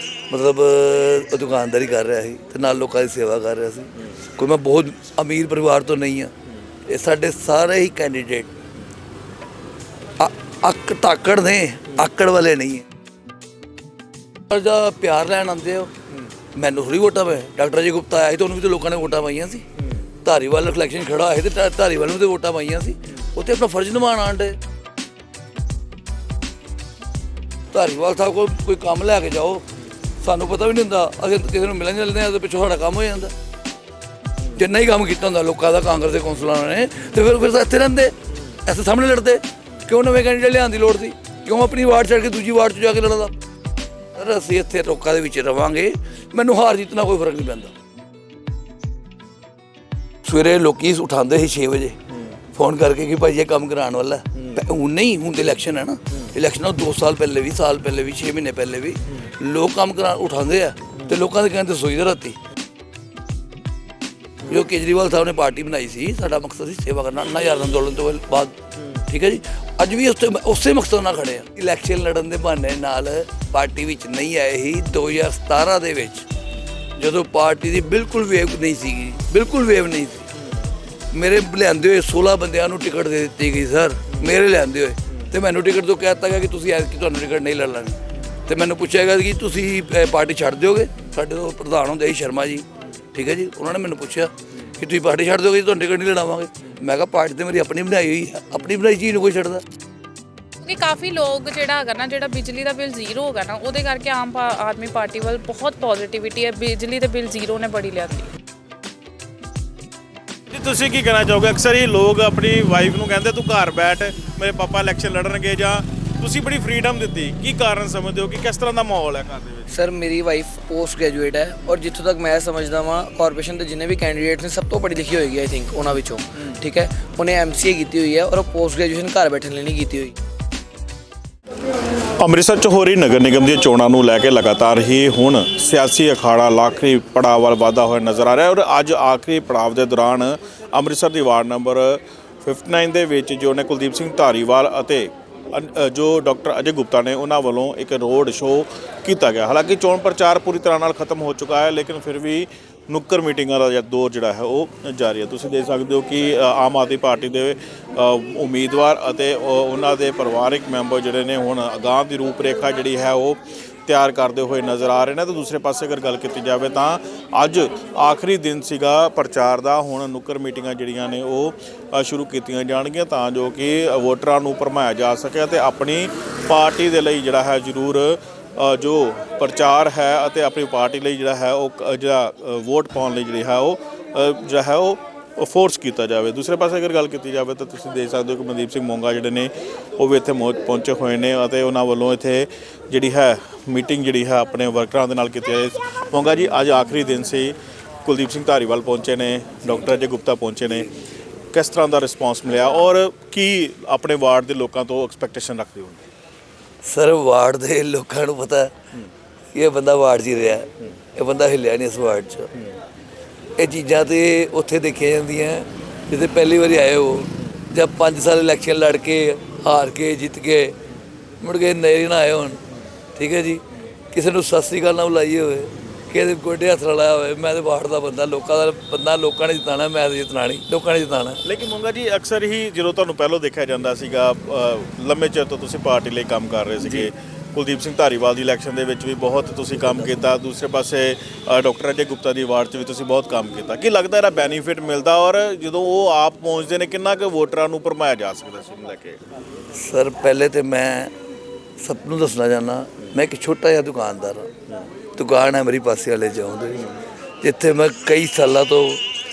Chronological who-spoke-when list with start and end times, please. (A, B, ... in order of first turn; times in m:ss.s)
0:00.3-0:06.3 A
0:06.9-0:08.5 A
0:10.2-0:12.8 A
0:14.5-0:15.9 A
0:16.5-0:19.6 A
0:20.2-0:24.6 A
0:27.7-0:29.6 A
0:30.2-0:33.3 A
0:34.5-0:43.4 A
0:44.1-0:47.7 A
0:50.2-0:52.0 A
0:52.5-1:02.4 A
0:54.4-0:54.6 B
1:04.5-1:16.2 A
1:17.0-1:20.2 A
1:21.1-1:39.6 A
1:40.6-1:48.3 C
1:50.5-1:59.7 B
1:59.7-2:10.1 D
2:12.2-3:17.5 B
3:18.0-3:20.9 B
3:21.5-3:26.0 B
3:26.8-3:28.7 A
3:29.5-3:32.5 A
3:33.6-3:40.8 A
3:41.4-3:42.6 A
3:43.2-3:51.4 A
3:51.4-4:09.2 B
3:56.8-3:57.1 A
4:09.7-4:11.1 A
4:11.8-4:14.5 A
4:15.2-4:16.9 A
4:17.4-4:19.0 A